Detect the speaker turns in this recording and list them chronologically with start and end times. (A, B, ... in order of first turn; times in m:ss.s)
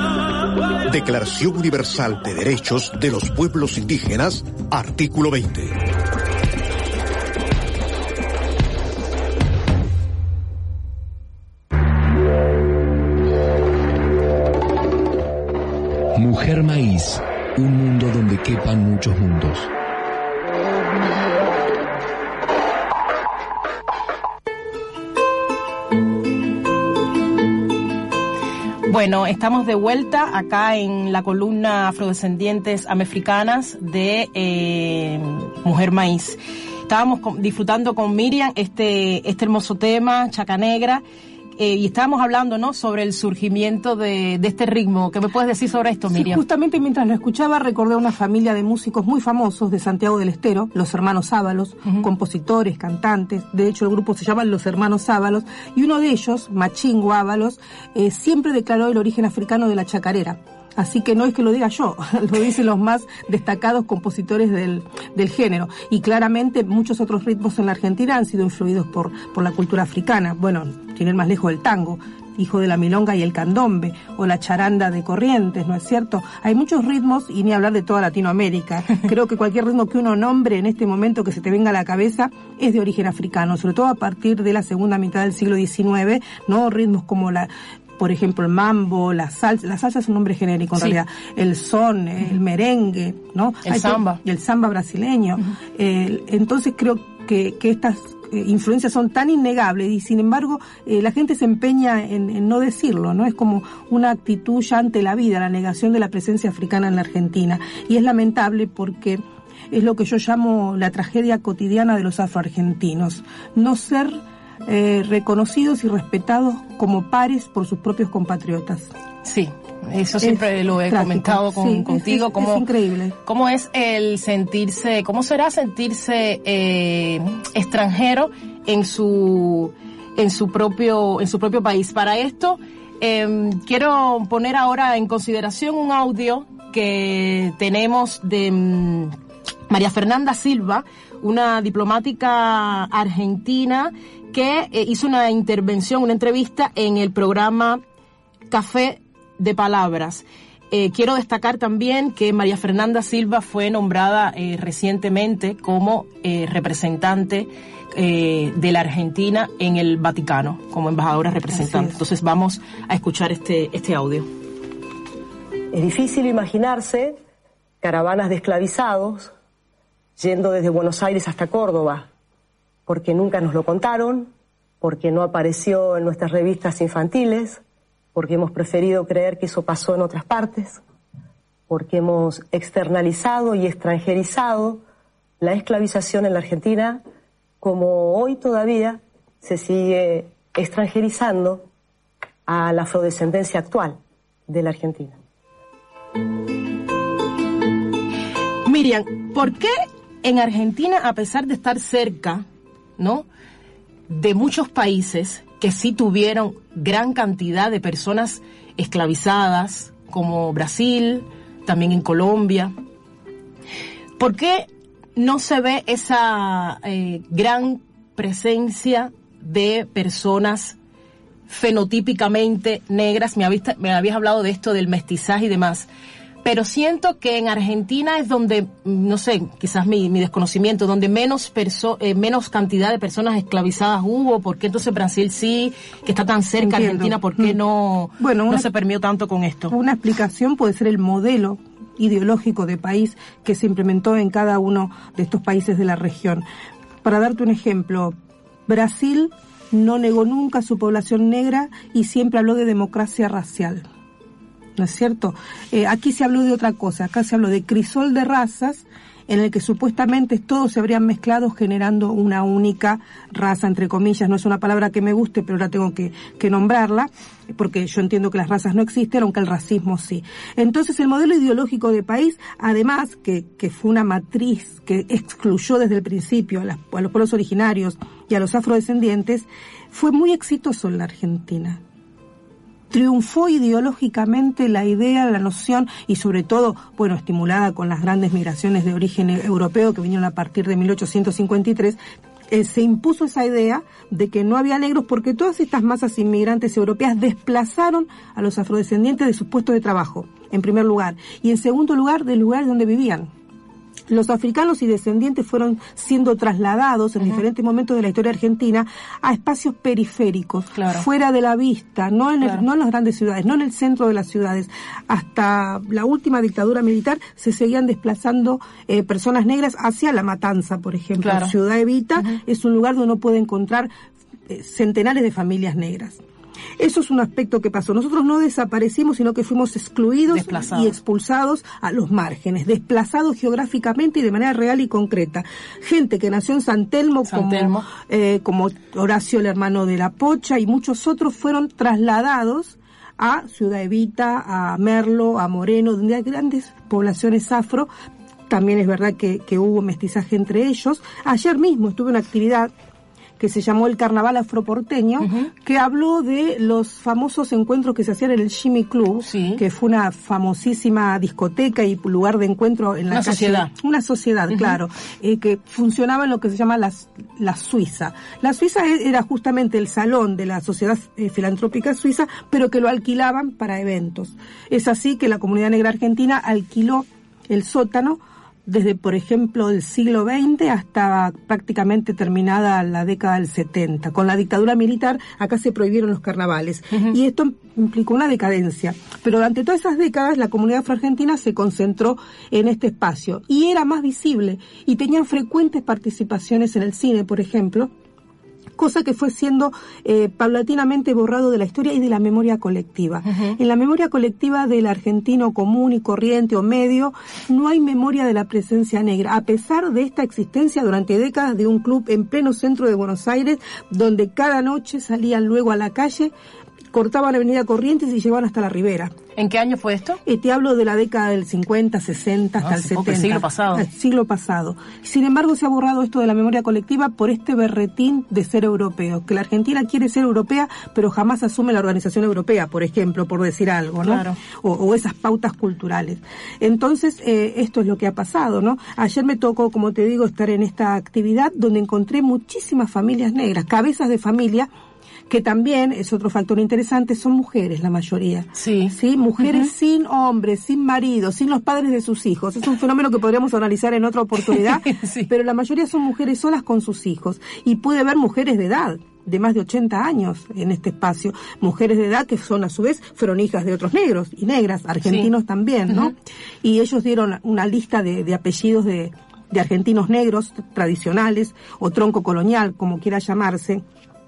0:00.9-0:05.8 A
0:16.2-0:19.7 B
0:28.9-0:41.0 C
0:41.6-0:46.4 C
0:46.1-1:58.9 D
1:33.6-1:34.2 C
1:59.2-2:02.6 C
2:00.2-2:03.2 D
2:03.2-2:19.2 C
2:19.7-2:27.8 C
2:28.5-2:44.3 C
2:41.5-2:42.0 D
2:45.7-2:47.2 E
2:47.8-2:49.3 E
2:50.2-2:52.1 E
2:52.9-2:57.6 E
2:58.1-3:00.8 E
3:01.7-3:04.8 E
3:05.4-3:07.0 E
3:07.6-3:11.6 E
3:12.5-3:15.2 E
3:18.6-3:22.4 C
3:23.0-3:23.2 C
3:24.1-3:32.7 C
3:34.2-3:40.8 C
3:41.5-3:45.9 C
3:46.4-3:59.8 C
3:56.6-3:57.6 D
3:58.2-3:58.7 D
3:59.7-4:06.4 D
4:07.0-4:08.1 D
4:08.7-4:13.8 D
4:14.8-4:41.8 D
4:42.9-4:52.0 D
4:52.5-5:03.3 D
5:04.1-5:23.9 D
5:10.8-5:11.0 C
5:21.2-5:21.5 C
5:24.5-5:26.2 D
5:26.8-5:47.9 D
5:30.3-5:31.0 C
5:37.3-5:37.9 C
5:48.5-5:52.7 D
5:53.4-6:37.9 D
5:55.2-5:55.5 C
5:59.2-5:59.6 C
6:03.1-6:03.7 C
6:04.5-6:04.8 C
6:38.8-6:56.3 D
6:43.3-6:43.6 C
6:56.9-6:59.1 D
6:59.4-7:00.2 C
7:00.2-7:24.7 D
7:02.6-7:03.9 C
7:14.0-7:14.4 C
7:25.3-7:53.8 D
7:28.5-7:29.7 C
7:34.4-7:35.3 C
7:45.0-7:45.3 C